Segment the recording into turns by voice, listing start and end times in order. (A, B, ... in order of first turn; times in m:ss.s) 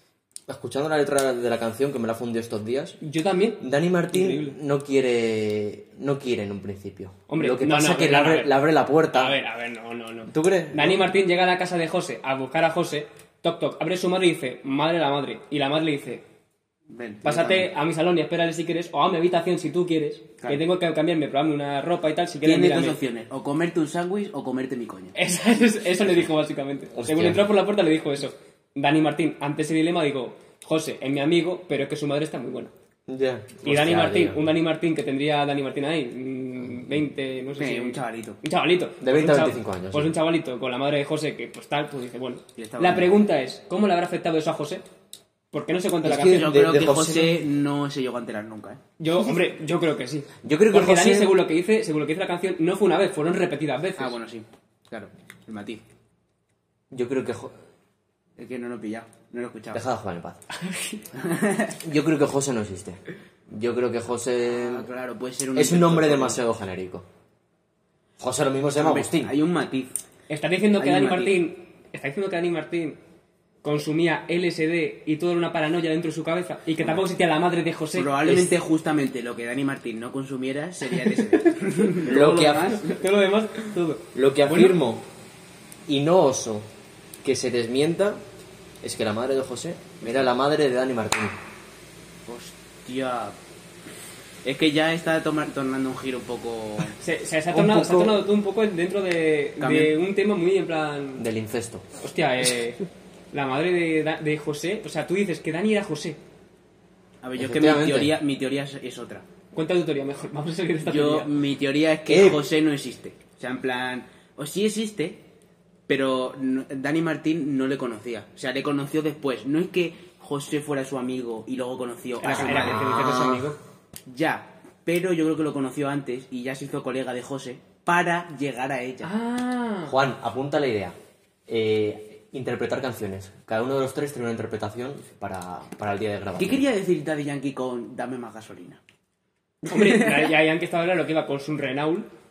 0:00.5-0:03.0 A
0:03.0-0:04.6 B
0:03.6-0:09.4 A
0:07.3-0:16.2 B
0:10.3-0:11.1 A
0:16.9-0:17.7 C
0:17.2-0:23.0 B
0:22.4-0:25.2 C
0:25.2-0:32.7 B
0:26.9-0:27.5 A
0:33.1-0:34.5 A
0:33.6-0:44.8 B
0:37.6-0:38.4 C
0:39.0-0:40.2 A
0:42.6-0:43.2 C
0:45.5-0:46.6 B
0:46.0-0:47.4 A
0:46.1-0:48.8 C
0:49.0-0:54.2 B
0:50.4-0:51.4 A
0:54.0-0:55.8 C
0:56.9-0:57.6 A
0:58.4-0:59.8 C
0:59.7-1:00.5 A
1:00.6-1:01.0 B
1:01.1-1:01.8 C
1:01.8-1:04.9 A
1:04.4-1:06.4 C
1:05.6-1:07.1 A
1:08.2-1:09.3 A
1:08.8-1:09.9 C
1:10.3-1:13.0 B
1:10.7-1:11.4 C
1:13.6-1:18.5 B
1:18.0-1:23.0 C
1:21.0-1:22.0 B
1:22.0-1:22.8 A
1:22.6-1:24.8 B
1:24.1-1:25.0 A
1:25.9-1:26.7 A
1:27.2-1:28.2 A
1:28.8-1:31.4 A
1:32.3-1:33.4 C
1:34.4-1:37.0 C
1:37.0-1:41.2 B
1:37.5-1:38.2 A
1:39.6-1:40.0 C
1:41.2-1:41.9 A
1:42.0-1:46.2 B
1:47.2-1:49.2 C
1:47.4-1:48.2 A
1:49.5-1:51.3 B
1:50.8-1:55.2 C
1:52.1-1:52.4 A
1:55.9-2:03.5 C
2:02.2-2:03.6 B
2:02.5-2:03.4 A
2:04.1-2:09.1 C
2:09.0-2:10.0 B
2:09.9-2:11.0 A
2:11.5-2:16.6 A
2:16.4-2:18.8 C
2:19.6-2:22.1 B
2:19.7-2:20.3 C